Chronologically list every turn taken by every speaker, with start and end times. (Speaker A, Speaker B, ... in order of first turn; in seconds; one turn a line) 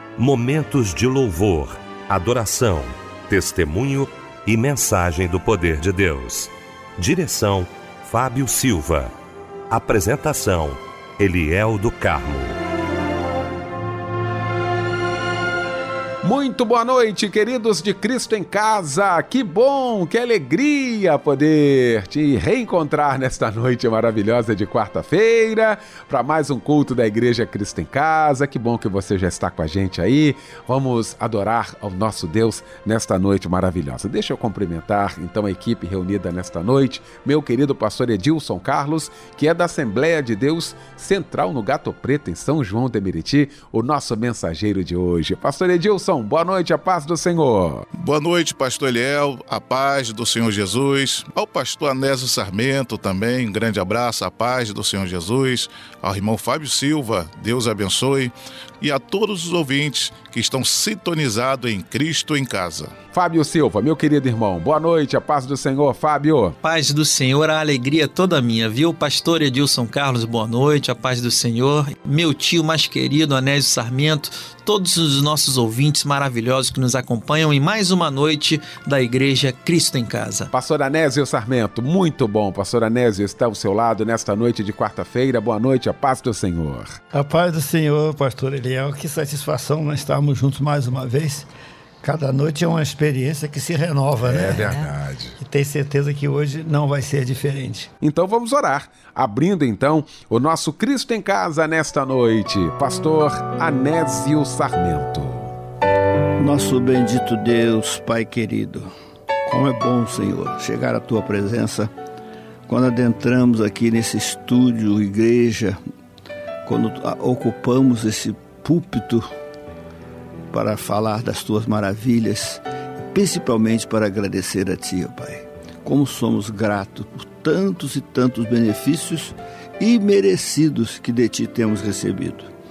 Speaker A: 0.2-9.1
Speaker A: 9.7-12.6
Speaker B: 16.2-47.8
Speaker C: 48.0-62.9
Speaker B: 63.1-66.6
Speaker D: 66.6-80.5
Speaker B: 80.5-87.0
Speaker E: 87.1-91.5
Speaker E: 92.0-94.9
Speaker B: 94.2-95.4
Speaker E: 95.4-97.9
Speaker B: 98.0-105.5
Speaker E: 106.4-108.9
Speaker E: 109.5-111.9
Speaker E: 112.7-115.8
Speaker E: 116.7-119.3
Speaker E: 120.5-132.5